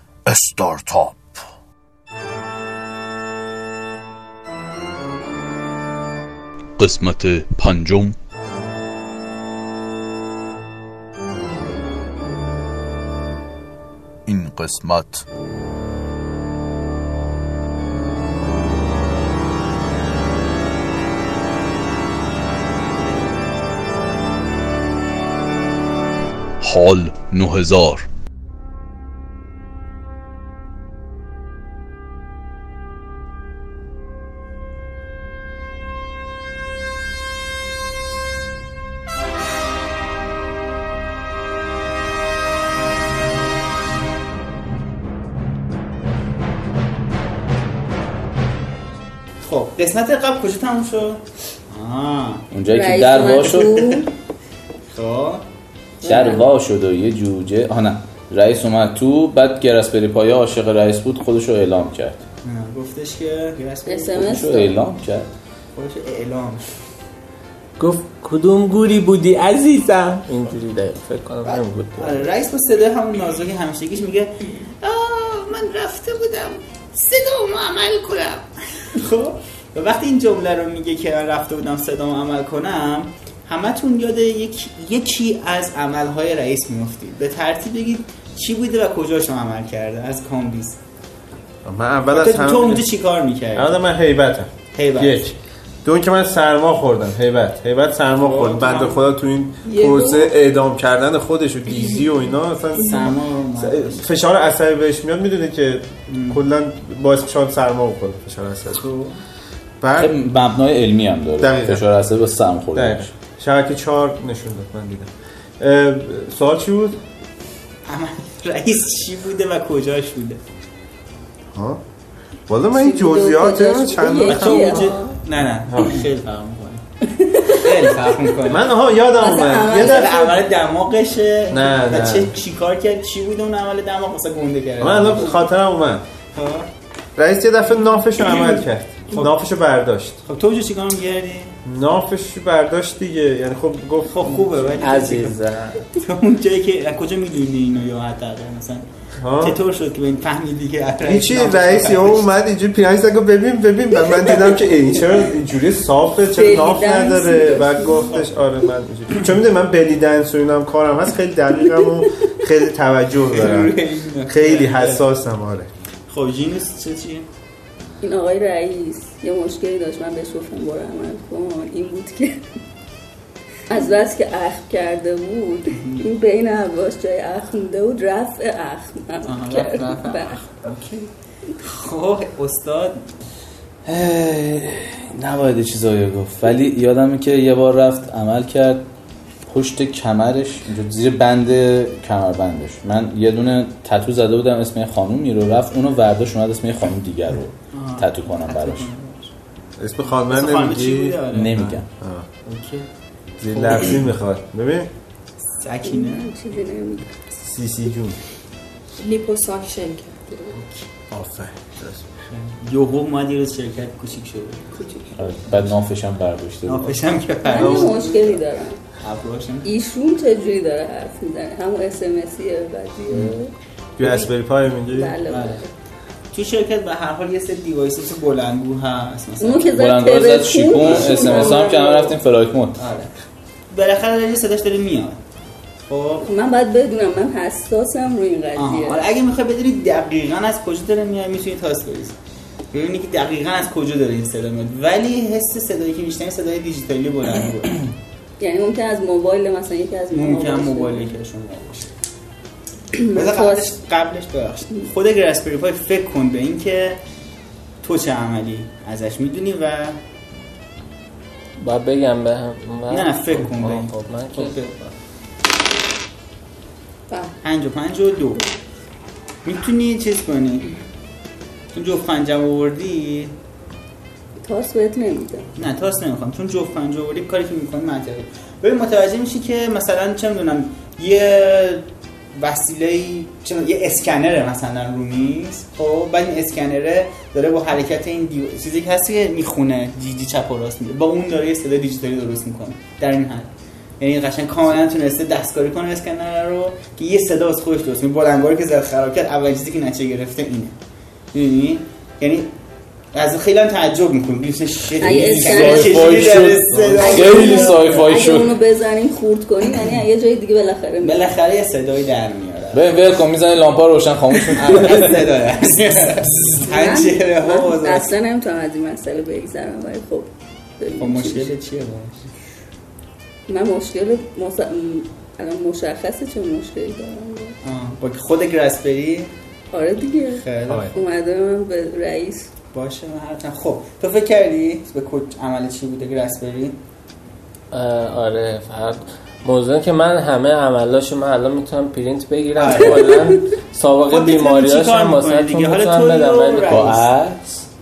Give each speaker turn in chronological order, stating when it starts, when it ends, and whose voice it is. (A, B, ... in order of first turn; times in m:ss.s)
0:00.3-0:01.2 A
0:06.8-0:08.2 A
0:14.2-0:15.2 A
0:26.6-0:28.0 A
0:49.4-0:52.5 B
0:52.5-0:53.8 A
0:52.7-0:54.1 C
0:54.9-0:55.4 B
0:56.0-0:56.4 C
0:56.0-1:02.2 A
1:02.4-1:04.4 B
1:03.9-1:04.8 C
1:04.1-1:05.3 A
1:05.7-1:06.7 B
1:07.8-1:12.2 D
1:11.4-1:30.8 B
1:31.6-1:32.9 E
1:32.1-1:33.8 B
1:33.5-1:48.9 E
1:34.7-1:35.2 B
1:38.2-1:39.0 B
1:39.6-1:40.3 F
1:42.8-1:44.1 B
1:46.1-1:46.4 B
1:49.8-1:50.2 E
1:50.0-1:53.1 A
1:51.4-1:51.8 E
1:52.7-1:57.0 E
1:57.8-2:00.4 B
2:01.5-2:01.8 E
2:02.5-2:04.9 E
2:02.7-2:05.1 C
2:04.2-2:06.8 B
2:05.6-2:06.1 E
2:07.1-2:07.8 C
2:07.5-2:08.7 B
2:08.5-2:10.2 E
2:09.2-2:10.4 C
2:09.7-2:15.4 B
2:11.5-2:12.3 E
2:14.8-2:16.0 E
2:16.3-2:16.7 B
2:17.2-2:20.2 E
2:19.1-2:19.4 B
2:20.2-2:21.5 B
2:21.6-2:24.7 E
2:24.1-2:25.4 B
2:24.8-2:25.8 D
2:25.9-2:28.9 B
2:29.2-2:29.6 E
2:29.4-2:32.3 B
2:31.0-2:43.8 E
2:36.3-2:38.1 C
2:43.3-2:45.0 B
2:44.3-2:45.7 E
2:46.1-2:47.3 B
2:48.0-2:52.4 C
2:53.7-3:00.4 C
2:55.8-2:56.0 B
2:59.2-3:00.4 B
3:00.6-3:01.1 E
3:01.6-3:03.0 B
3:03.8-3:08.8 A
3:09.5-3:18.9 A
3:17.7-3:19.3 B
3:19.8-3:22.3 E
3:20.2-3:21.5 B
3:21.3-3:21.9 A
3:22.4-3:22.8 B
3:23.4-3:24.9 E
3:23.5-3:23.8 B
3:25.5-3:26.3 B
3:25.8-3:27.1 C
3:27.4-3:28.2 E
3:29.0-3:30.6 F
3:31.1-3:32.1 E
3:32.3-3:34.7 B
3:34.8-3:35.1 F
3:35.2-3:36.9 A
3:36.6-3:38.4 B
3:37.4-3:38.8 C
3:37.5-3:38.0 E
3:39.0-3:39.7 B
3:39.6-3:45.6 C
3:44.0-3:45.2 E
3:45.3-3:45.6 B
3:46.3-3:49.8 B
3:49.4-3:52.2 C
3:49.7-3:52.8 A
3:50.8-3:51.7 B
3:52.8-3:53.1 B
3:53.7-3:55.2 B
3:55.8-3:56.3 B
3:56.2-3:59.1 C
3:58.6-4:02.2 B
4:02.7-4:07.8 B
4:08.4-4:11.1 C
4:10.1-4:11.9 B
4:13.0-4:13.7 C
4:13.0-4:17.0 B
4:17.8-4:20.0 B
4:21.6-4:24.5 D
4:22.9-4:24.9 B
4:27.4-4:28.4 B
4:29.4-4:30.6 B
4:31.7-4:33.3 B
4:34.4-4:35.5 C
4:35.6-5:00.8 B
5:01.3-5:02.5 B
5:03.1-5:08.0 B
5:05.0-5:06.4 C
5:05.0-5:08.6 A
5:07.0-5:11.2 C
5:11.0-5:13.0 B
5:12.7-5:15.2 A
5:14.5-5:18.1 B
5:16.6-5:20.3 C
5:20.8-5:21.5 C
5:21.0-5:22.2 B
5:23.5-5:27.6 C
5:27.6-5:29.3 B
5:29.7-5:32.5 C
5:30.4-5:31.0 B
5:30.6-5:30.9 E
5:32.7-5:36.8 B
5:37.7-5:46.9 D
5:42.6-5:43.3 B
5:44.1-5:47.1 B
5:46.7-5:47.6 A